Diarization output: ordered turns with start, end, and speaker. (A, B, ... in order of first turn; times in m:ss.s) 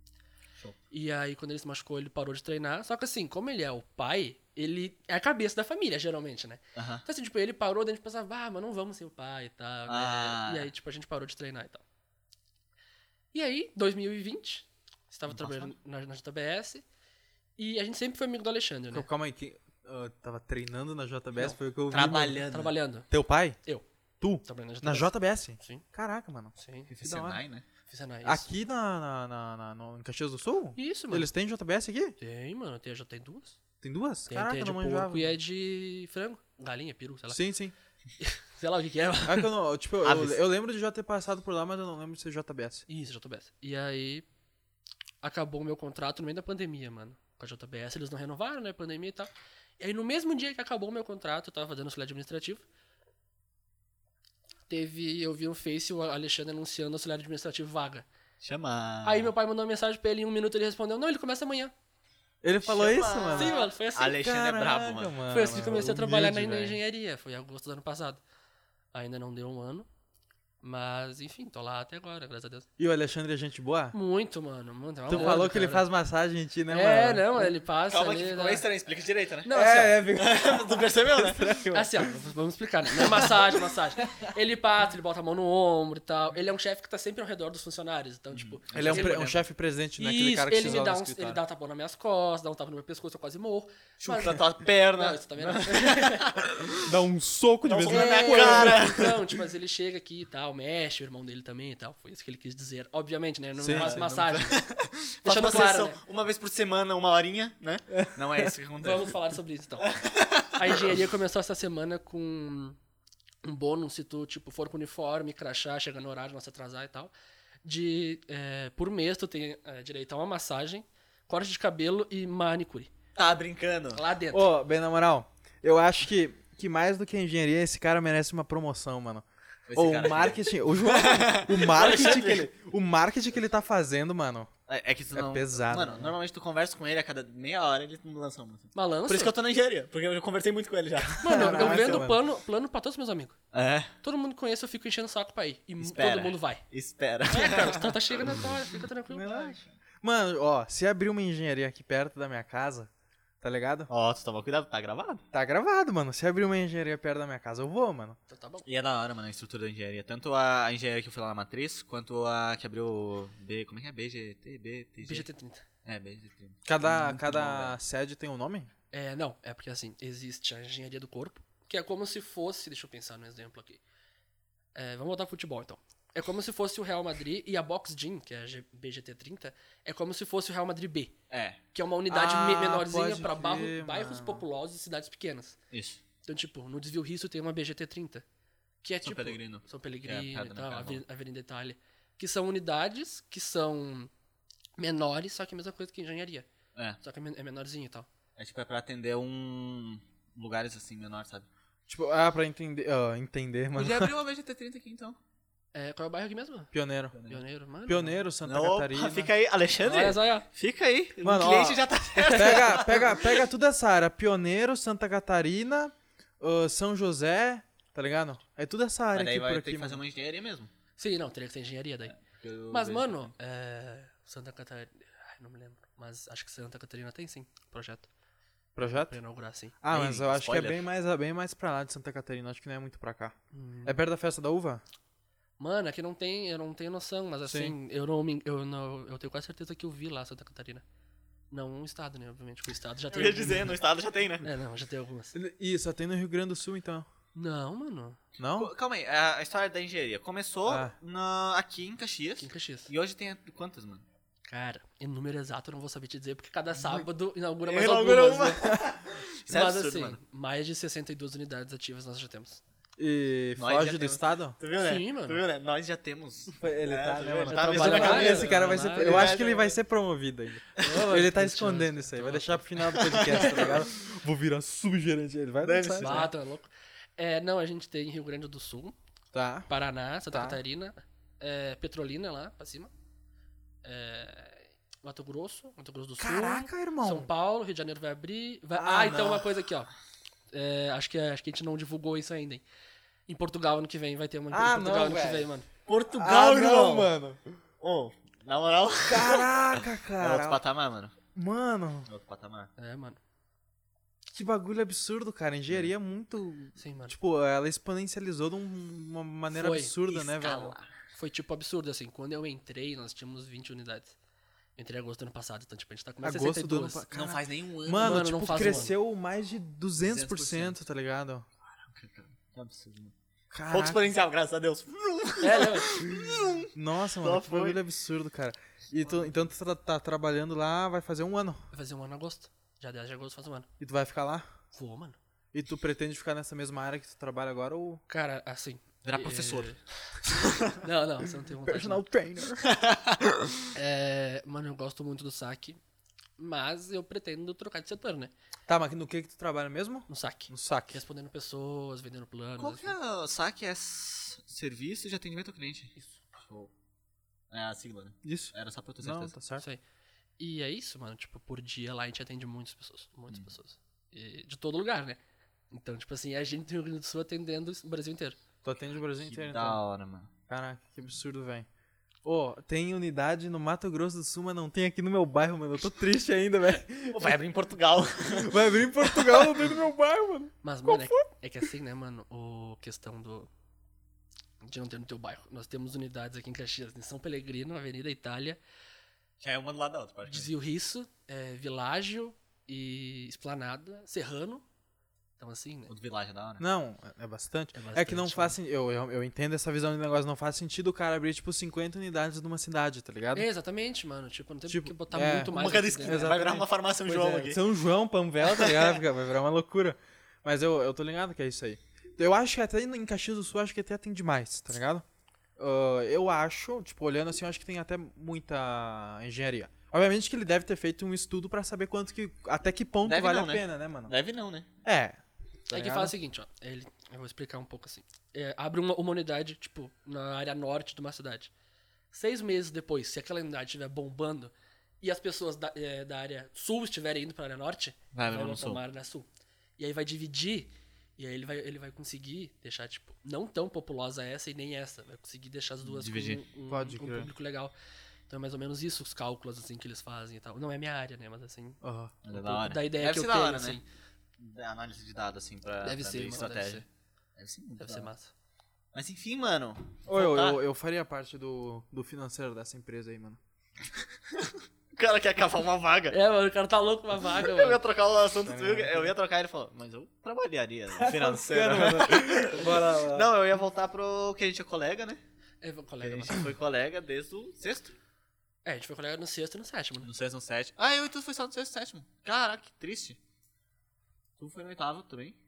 0:00.9-0:11.8 A
0:06.7-0:07.0 B
0:09.9-0:10.7 B
0:13.3-0:16.8 A
0:15.3-0:15.7 B
0:17.6-0:19.1 A
0:18.9-0:22.4 C
0:21.9-0:22.7 B
0:22.5-0:23.1 A
0:23.1-0:23.6 C
0:24.2-0:27.4 C
0:24.4-0:25.8 A
0:26.6-0:26.9 A
0:26.9-0:27.6 B
0:27.9-0:28.5 A
0:28.2-0:32.1 C
0:30.8-0:31.3 A
0:32.2-0:33.6 A
0:33.8-0:35.4 C
0:34.3-0:37.4 A
0:37.3-0:37.7 C
0:38.2-0:39.5 A
0:39.2-0:42.8 C
0:40.0-0:40.4 B
0:42.9-0:44.2 A
0:45.2-0:52.6 A
0:54.7-0:58.0 A
0:58.4-0:59.3 B
0:59.0-1:01.7 A
1:02.4-1:03.6 C
1:02.6-1:05.2 B
1:03.3-1:04.2 A
1:04.2-1:06.8 C
1:05.3-1:08.2 A
1:08.9-1:09.9 A
1:10.6-1:12.7 A
1:12.8-1:13.9 C
1:13.9-1:15.9 A
1:15.1-1:17.5 C
1:15.1-1:15.4 B
1:16.7-1:18.6 A
1:17.9-1:21.6 B
1:19.4-1:20.0 A
1:19.5-1:22.1 C
1:21.7-1:29.2 A
1:23.0-1:23.4 C
1:28.3-1:29.4 B
1:28.7-1:31.4 C
1:30.0-1:36.3 A
1:34.0-1:36.9 B
1:36.8-1:39.0 C
1:37.6-1:39.2 B
1:37.9-1:44.6 A
1:43.6-1:44.1 C
1:43.7-1:49.2 B
1:45.2-1:46.0 A
1:48.8-1:49.9 A
1:49.8-1:51.0 B
1:50.5-1:52.8 A
1:53.4-1:57.1 A
1:57.6-2:02.9 A
2:03.1-2:04.0 B
2:03.9-2:04.5 A
2:04.3-2:14.5 C
2:09.7-2:12.5 B
2:14.7-2:22.0 B
2:15.1-2:16.1 C
2:18.7-2:19.3 A
2:21.1-2:22.2 C
2:21.2-2:23.4 A
2:23.5-2:23.9 B
2:24.0-2:26.6 A
2:25.8-2:28.0 B
2:27.3-2:29.5 A
2:29.1-2:32.9 C
2:33.4-2:33.9 C
2:33.9-2:35.2 B
2:35.3-2:38.2 C
2:38.3-2:38.6 A
2:38.6-2:45.3 B
2:45.0-2:45.6 A
2:45.8-2:47.8 B
2:46.6-2:48.7 C
2:48.9-2:53.8 A
2:54.7-3:01.1 A
3:01.3-3:01.6 B
3:01.7-3:05.6 A
3:02.1-3:04.4 C
3:05.7-3:06.0 B
3:06.2-3:08.2 A
3:08.8-3:14.1 A
3:09.0-3:11.0 B
3:14.8-3:16.5 A
3:17.0-3:18.1 A
3:18.4-3:21.5 B
3:21.9-3:24.1 C
3:23.8-3:25.2 B
3:25.7-3:26.7 A
3:26.7-3:27.2 C
3:27.1-3:27.4 B
3:27.2-3:28.2 A
3:27.9-3:29.3 C
3:28.4-3:33.4 B
3:29.8-3:30.4 A
3:31.2-3:40.0 C
3:32.2-3:32.7 A
3:39.1-3:40.7 B
3:41.0-3:42.1 A
3:42.1-3:43.3 B
3:42.7-3:48.1 A
3:48.8-3:49.2 C
3:49.0-3:49.8 A
3:49.8-3:54.8 C
3:49.9-3:50.8 B
3:53.5-3:54.0 A
3:55.6-4:00.8 A
3:57.4-3:57.7 C
4:01.5-4:03.8 A
4:03.1-4:04.5 B
4:04.4-4:05.3 A
4:05.3-4:07.1 C
4:07.3-4:08.2 A
4:08.4-4:08.7 C
4:08.6-4:14.0 B
4:10.7-4:10.9 C
4:12.4-4:12.9 A
4:14.5-4:18.7 A
4:17.6-4:20.2 B
4:19.5-4:22.6 A
4:23.0-4:24.6 C
4:23.6-4:29.8 B
4:24.8-4:25.4 A
4:26.6-4:36.3 C
4:27.5-4:29.4 A
4:30.8-4:32.7 A
4:32.9-4:33.9 B
4:35.6-4:36.3 B
4:36.0-4:39.0 A
4:39.3-4:39.7 C
4:39.7-4:42.9 A
4:40.3-4:40.6 C
4:43.8-4:49.9 A
4:46.2-4:47.3 C
4:48.7-4:49.5 C
4:50.5-4:52.6 A
4:53.3-4:55.6 A
4:54.5-4:55.5 C
4:55.9-4:57.1 B
4:56.1-4:57.4 C
4:57.8-5:01.2 B
4:59.1-5:00.6 C
5:01.3-5:02.1 C
5:02.1-5:02.7 B
5:02.8-5:03.2 A
5:04.3-5:10.8 C
5:06.8-5:07.2 A
5:09.5-5:09.9 A
5:10.0-5:10.9 B
5:11.1-5:14.2 A
5:14.8-5:17.0 A
5:16.2-5:21.4 C
5:17.1-5:18.9 B
5:18.0-5:18.9 A
5:20.0-5:20.8 B
5:21.8-5:23.1 B
5:23.5-5:24.0 C
5:23.7-5:27.8 B
5:25.4-5:25.9 A
5:26.1-5:31.6 C
5:29.0-5:29.3 B
5:31.7-5:33.7 A
5:33.8-5:34.5 C
5:34.7-5:35.2 A
5:35.5-5:38.0 C
5:38.1-5:39.8 A
5:39.0-5:40.8 B
5:40.8-5:42.0 A
5:41.6-5:42.6 C
5:42.7-5:43.2 B
5:43.7-5:45.8 A
5:46.4-5:48.3 A
5:48.7-5:51.0 C
5:50.1-5:52.9 A
5:52.6-5:56.7 B
5:57.5-5:59.3 B
5:58.2-5:59.6 C
6:00.4-6:05.2 A
6:05.7-6:08.4 A
6:08.6-6:09.8 C
6:09.2-6:10.3 B
6:10.5-6:11.7 C
6:12.2-6:17.4 C
6:17.1-6:19.7 B
6:18.3-6:21.1 C
6:20.6-6:23.5 A
6:24.6-6:28.6 A
6:29.4-6:30.5 B
6:30.3-6:34.6 A
6:35.4-6:35.9 A
6:35.9-6:36.6 B
6:36.6-6:43.5 C
6:37.7-6:38.6 A
6:43.3-6:46.4 A
6:44.7-6:55.0 C
6:45.5-6:47.6 B
6:48.4-6:49.0 B
6:55.6-7:04.1 C
7:03.0-7:04.7 B
7:04.8-7:06.1 C
7:05.7-7:11.5 A
7:12.1-7:19.3 A
7:18.1-7:18.8 B
7:19.8-7:27.7 A
7:25.8-7:26.4 B
7:26.7-7:27.3 C
7:28.3-7:31.8 A
7:31.8-7:32.2 C
7:32.2-7:33.8 B
7:32.3-7:33.8 A
7:34.4-7:36.8 B
7:35.8-7:36.8 A
7:37.4-7:38.1 B
7:37.8-7:38.3 A
7:38.9-7:40.6 B
7:40.0-7:43.4 C
7:44.3-7:46.2 B
7:46.1-7:47.8 A
7:47.3-7:55.2 B
7:48.4-7:49.1 C
7:51.0-7:53.3 C
7:55.6-7:56.4 A
7:56.0-7:58.0 B
7:58.6-8:00.1 A
8:00.0-8:03.2 B
8:04.4-8:05.4 B